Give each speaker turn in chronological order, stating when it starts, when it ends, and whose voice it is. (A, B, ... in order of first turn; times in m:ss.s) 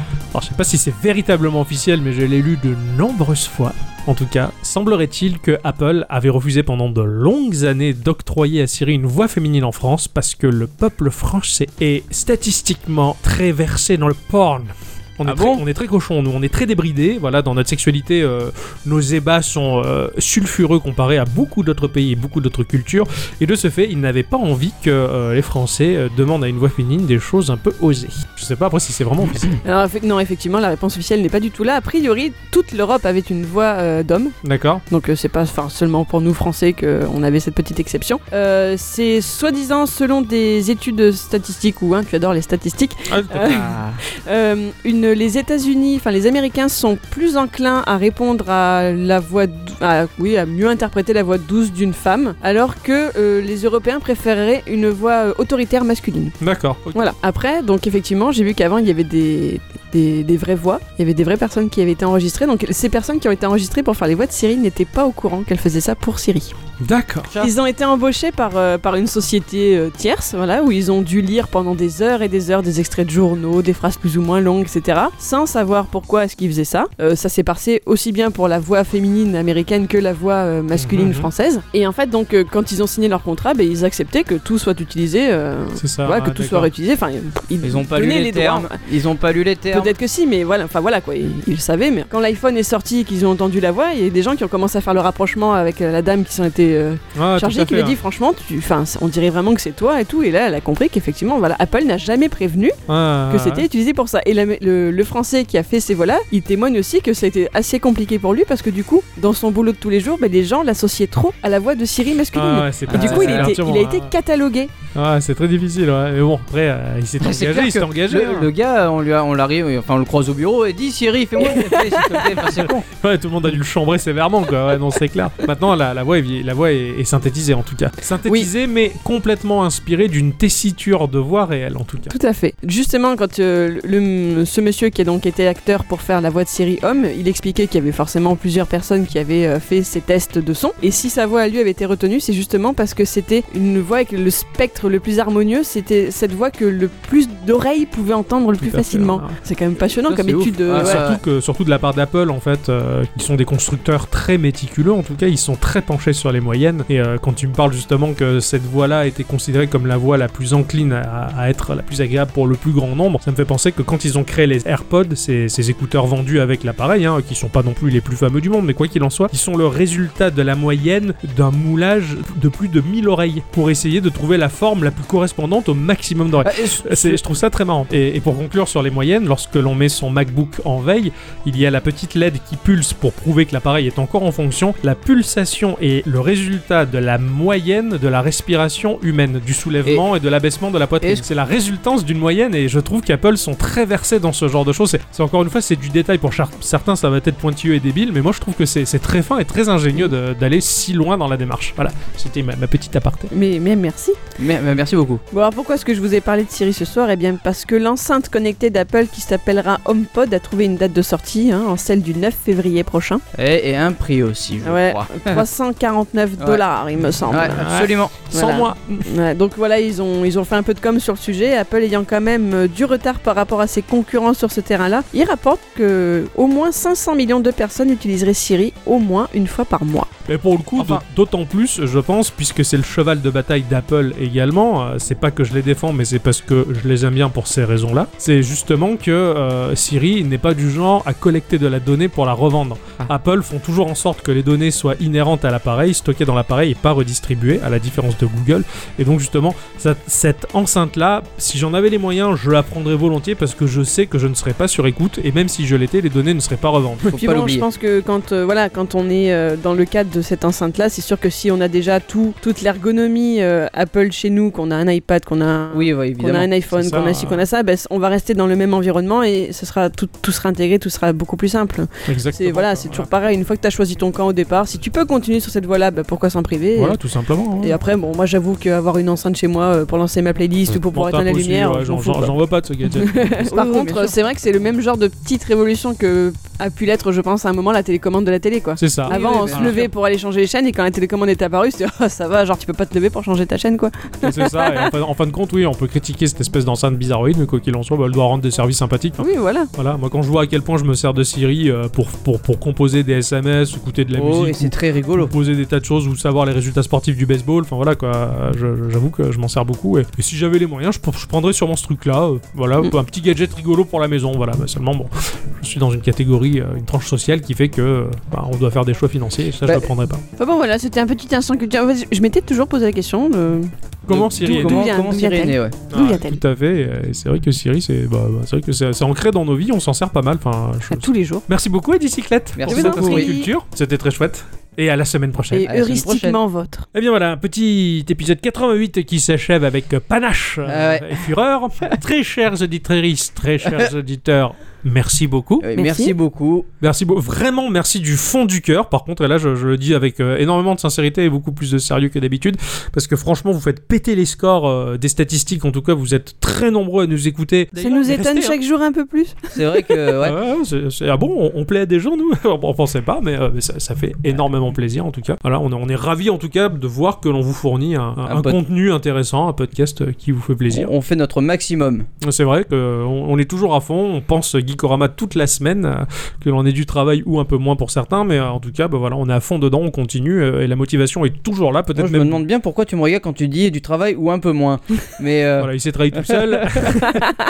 0:00.3-0:29.5 A
0:15.2-0:15.6 B
0:29.6-0:34.4 C
0:34.4-0:34.8 A
0:34.9-0:56.4 C
0:43.0-0:43.8 A
0:43.4-0:44.0 B
0:56.4-0:57.1 A
0:56.9-1:06.6 C
1:06.8-1:07.3 A
1:07.3-1:07.5 B
1:07.4-1:28.8 C
1:20.8-1:21.3 A
1:25.8-1:26.7 A
1:27.6-1:29.9 B
1:29.7-1:54.7 C
1:37.1-1:38.0 A
1:42.9-1:43.7 A
1:52.3-1:54.1 A
1:52.9-1:53.5 B
1:54.9-1:58.5 A
1:57.2-2:02.9 B
2:01.5-2:02.2 C
2:02.5-2:12.1 A
2:12.1-2:31.1 C
2:28.6-2:29.4 A
2:30.1-2:31.2 B
2:30.2-3:23.3 A
2:56.4-2:57.2 B
3:23.3-3:24.2 C
3:24.4-3:25.2 B
3:25.3-3:33.2 C
3:33.3-3:35.4 B
3:34.6-3:37.6 C
3:37.3-3:38.3 B
3:37.5-3:39.1 A
3:38.3-3:50.1 C
3:50.2-4:17.2 A
3:50.8-3:51.0 B
4:17.0-4:17.6 B
4:17.2-4:37.0 C
4:25.7-4:26.5 B
4:26.7-4:27.4 A
4:32.1-4:33.1 A
4:36.7-4:37.8 A
4:37.6-4:42.3 C
4:40.9-4:43.2 A
4:42.8-4:54.9 C
4:43.4-4:44.2 B
4:48.8-4:49.9 A
4:49.1-4:49.9 B
4:54.2-5:20.2 A
4:59.2-4:59.7 C
5:04.1-5:05.3 B
5:20.4-5:23.7 C
5:24.1-5:24.8 A
5:24.1-5:25.8 B
5:24.5-5:26.4 C
5:25.9-5:35.7 A
5:30.9-5:31.4 C
5:32.5-5:33.3 B
5:32.7-5:33.5 C
5:35.5-5:36.8 C
5:35.6-5:36.4 B
5:36.9-5:45.6 A
5:40.6-5:41.2 B
5:45.6-5:46.7 B
5:45.7-5:46.1 C
5:46.8-5:58.6 A
5:57.8-5:59.9 C
5:59.5-6:00.4 B
6:00.2-6:10.9 A
6:08.2-6:08.6 B
6:10.7-6:12.1 B
6:12.2-6:22.4 A
6:21.9-6:27.0 B
6:25.6-6:27.2 A